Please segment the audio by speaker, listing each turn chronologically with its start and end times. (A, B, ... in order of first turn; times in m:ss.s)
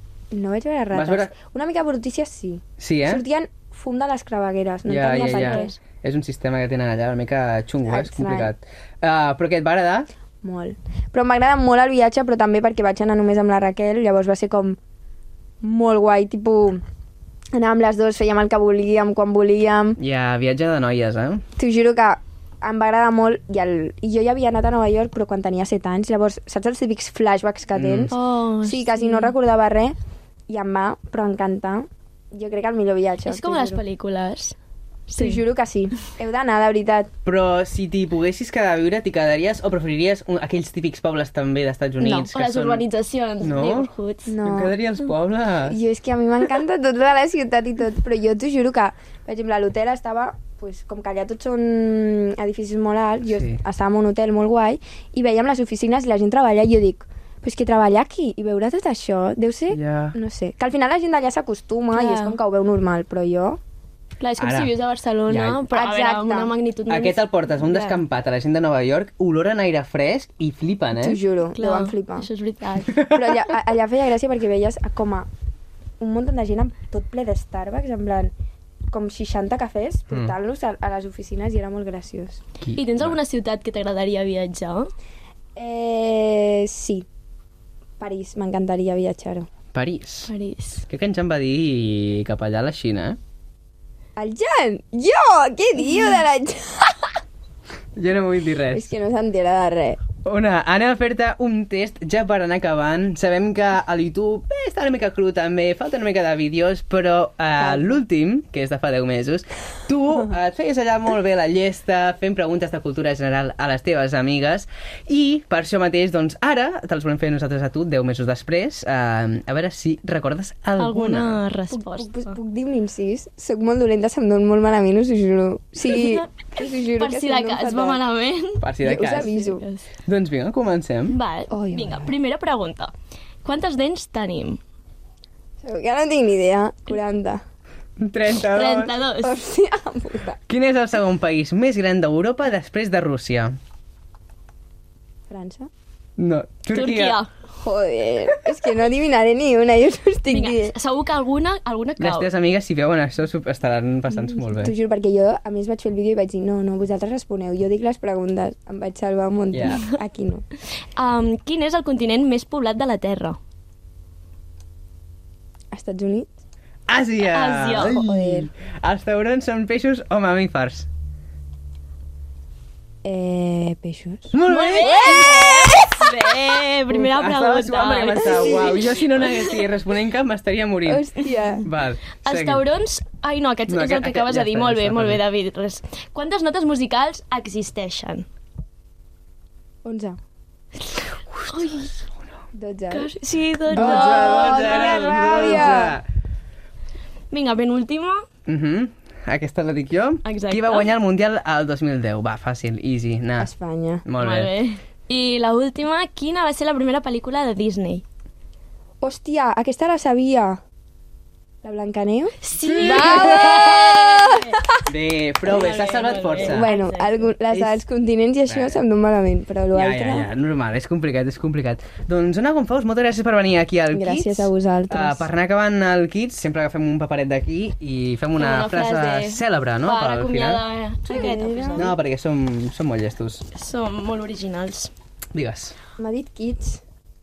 0:00.3-0:05.8 A
0:00.9-0:01.3 B
0:02.8-0:03.2 B
0:04.8-0:10.1 B
0:05.1-0:05.8 C
0:07.8-0:08.5 A
0:10.4-0:14.8 A
0:15.6-0:16.8 A
0:17.5-0:20.0 A
0:20.0-0:21.4 B
0:21.6-0:30.0 A
0:27.7-0:28.1 B
0:28.1-0:29.3 C
0:30.5-0:33.8 A
0:33.2-0:34.5 C
0:35.1-0:35.4 C
0:35.2-0:37.1 A
0:37.2-0:42.8 B
0:42.0-0:42.3 A
0:42.2-0:44.3 C
0:43.4-0:43.9 B
0:44.2-0:44.7 A
0:44.4-0:45.8 B
0:45.6-1:03.6 A
0:53.3-0:53.6 B
0:59.7-1:00.1 B
1:01.9-1:02.4 C
1:04.2-1:08.0 C
1:04.4-1:04.7 B
1:05.3-1:05.6 B
1:05.7-1:06.5 A
1:06.9-1:11.2 B
1:11.0-1:12.3 A
1:11.6-1:13.0 C
1:13.1-1:15.3 A
1:16.0-1:18.3 A
1:18.9-1:22.4 A
1:22.6-1:23.2 B
1:22.7-1:24.9 C
1:25.6-1:27.0 A
1:28.0-1:29.5 A
1:29.7-1:30.3 B
1:30.3-1:30.8 C
1:30.9-1:33.2 B
1:34.2-1:37.2 A
1:38.0-1:38.9 B
1:38.7-1:40.0 A
1:40.2-2:01.4 B
1:47.6-1:48.0 A
2:00.8-2:02.4 C
2:01.7-2:08.0 A
2:05.9-2:08.7 C
2:08.6-2:09.4 B
2:08.8-2:09.6 A
2:09.2-2:09.9 C
2:10.0-2:11.2 B
2:11.1-2:12.9 C
2:11.5-2:12.1 A
2:13.4-2:14.6 C
2:15.6-2:17.4 A
2:18.0-2:19.0 B
2:18.4-2:19.4 C
2:19.2-2:20.4 A
2:20.5-2:23.6 B
2:25.3-2:25.7 A
2:26.2-2:27.2 B
2:26.7-2:27.3 C
2:27.6-2:30.8 A
2:30.3-2:32.3 C
2:32.0-2:34.7 B
2:34.6-2:40.4 A
2:39.5-2:39.8 B
2:41.0-2:43.4 C
2:45.7-2:46.4 A
2:46.9-2:50.9 B
2:47.2-2:48.0 C
2:47.8-2:48.5 A
2:53.0-2:54.3 A
2:54.3-2:55.8 B
2:54.4-2:59.6 C
2:54.9-2:55.8 A
2:56.9-3:01.1 B
3:00.8-3:01.6 A
3:01.6-3:02.6 B
3:02.2-3:08.2 C
3:03.7-3:05.2 B
3:09.8-3:10.2 A
3:11.5-3:11.9 C
3:12.5-3:13.1 A
3:12.9-3:15.9 C
3:13.7-3:16.0 B
3:13.7-3:16.0 A
3:17.3-3:18.2 C
3:18.4-3:23.5 B
3:20.2-3:20.9 C
3:23.4-3:24.0 A
3:24.0-3:24.5 B
3:24.2-3:28.0 C
3:29.0-3:30.6 A
3:31.6-3:34.7 A
3:32.4-3:34.6 C
3:32.6-3:33.7 B
3:34.9-3:36.7 B
3:35.5-3:37.2 C
3:36.4-3:40.3 A
3:37.5-3:37.8 B
3:38.5-3:38.8 B
3:39.7-3:50.6 B
3:43.9-3:45.3 A
3:48.3-3:51.9 C
3:51.1-3:51.9 A
3:51.8-3:53.4 B
3:53.5-3:54.9 C
3:55.3-3:55.7 B
3:56.0-3:56.8 A